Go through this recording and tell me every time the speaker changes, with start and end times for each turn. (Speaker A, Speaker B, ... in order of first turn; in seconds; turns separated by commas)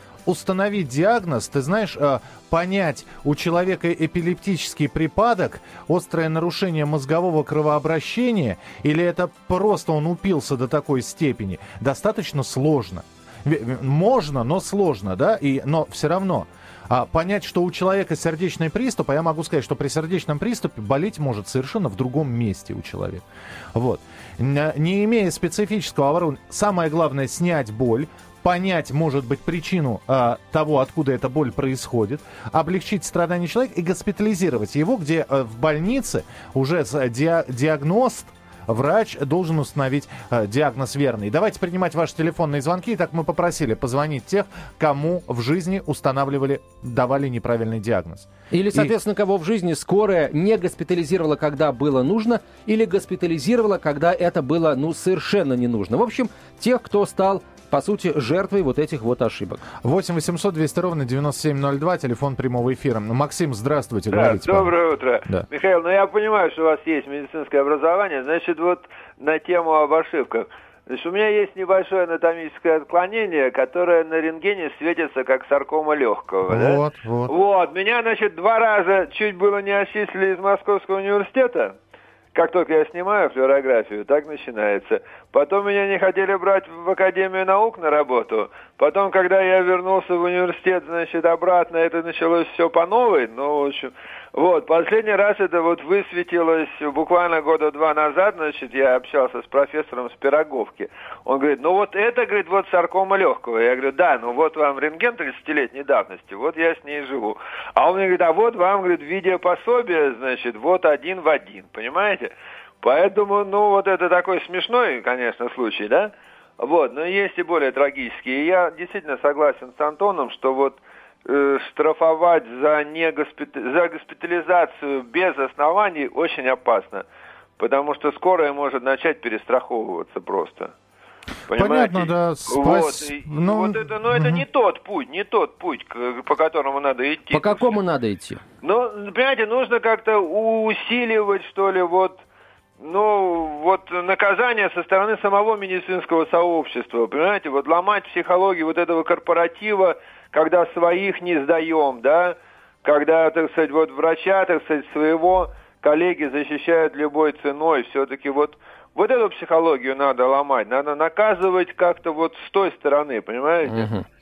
Speaker A: 0.2-48.9, Speaker B: 48.5-59.6, Speaker A: 59.8-64.7, Speaker C: 64.1-81.8, Speaker A: 76.5-77.3, Speaker C: 82.3-127.0, Speaker C: 127.6-130.7, Speaker C: 131.5-137.7, Speaker A: 131.5-134.4, Speaker B: 137.3-138.4, Speaker C: 138.6-142.2, Speaker C: 142.8-163.9, Speaker B: 163.6-164.0